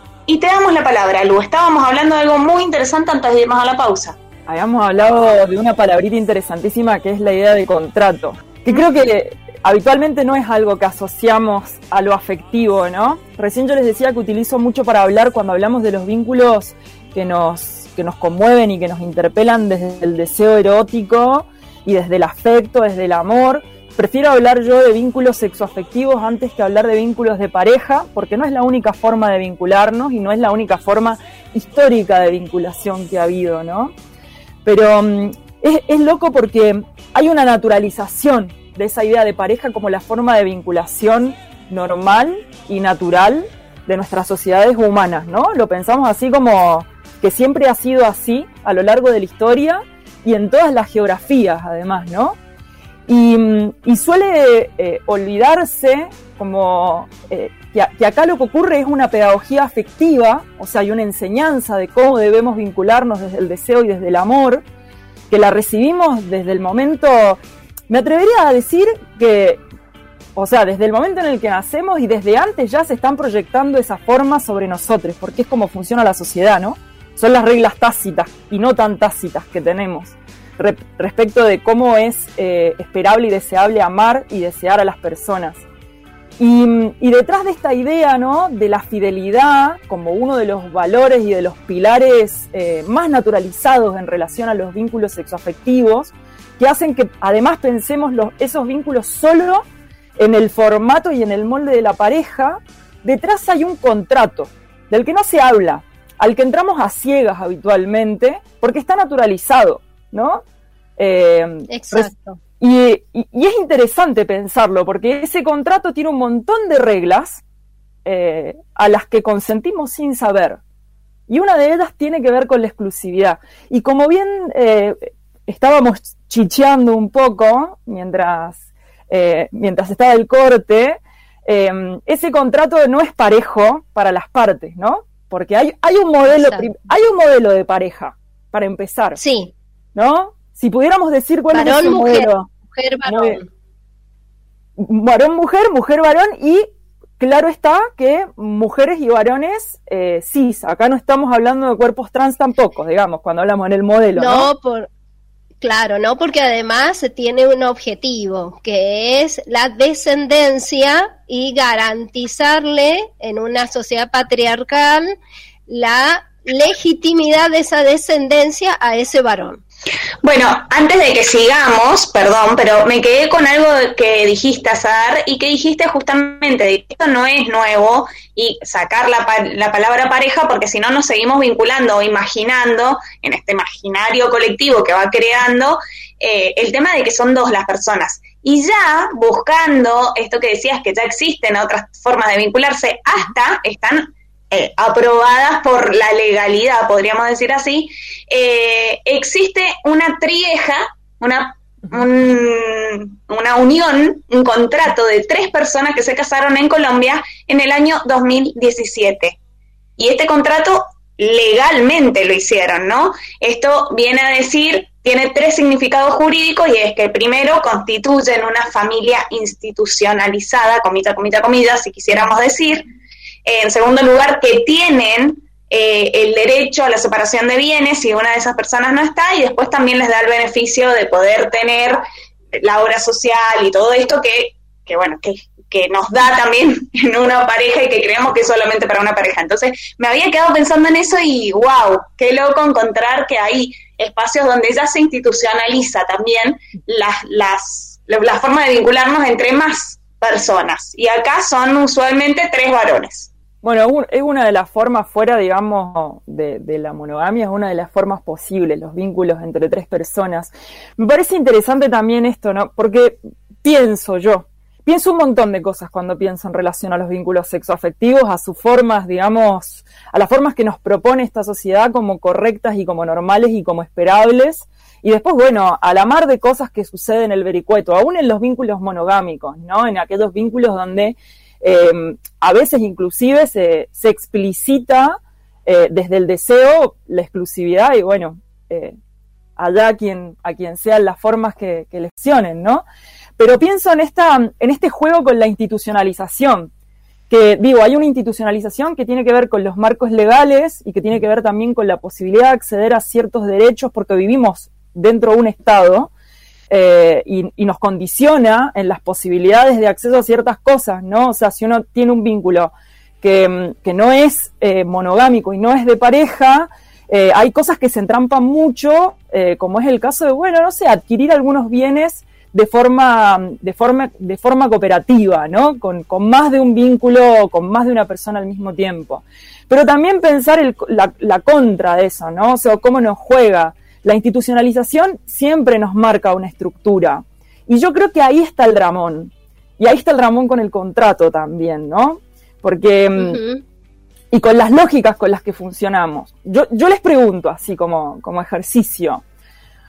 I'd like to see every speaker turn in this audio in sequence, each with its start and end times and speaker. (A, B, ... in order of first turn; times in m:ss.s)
0:00.3-0:04.2 A
0:04.5-0:33.9 B
0:34.6-0:52.4 B
0:53.1-1:04.6 B
1:05.3-1:09.6 B
1:10.4-1:25.6 B
1:26.4-1:39.6 B
1:40.2-1:50.4 B
1:51.0-1:57.4 B
1:51.7-1:52.4 C
1:58.0-2:00.6 B
2:01.3-2:19.2 B
2:16.3-2:16.7 C
2:19.2-2:19.5 C
2:20.0-2:22.5 B
2:21.5-2:23.5 C
2:23.1-2:23.4 B
2:24.8-2:26.7 B
2:27.2-2:34.5 B
2:34.2-2:34.9 C
2:35.6-2:45.1 C
2:45.7-2:49.6 C
2:50.2-3:29.4 A
3:30.0-3:42.9 A
3:43.4-3:52.0 A
3:52.5-4:13.3 A
4:13.6-4:49.0 B
4:49.6-4:52.8 B
4:53.4-4:56.7 B
4:57.3-5:06.1 B
5:06.7-5:43.4 B
5:43.2-5:43.6 C
5:44.3-5:49.2 B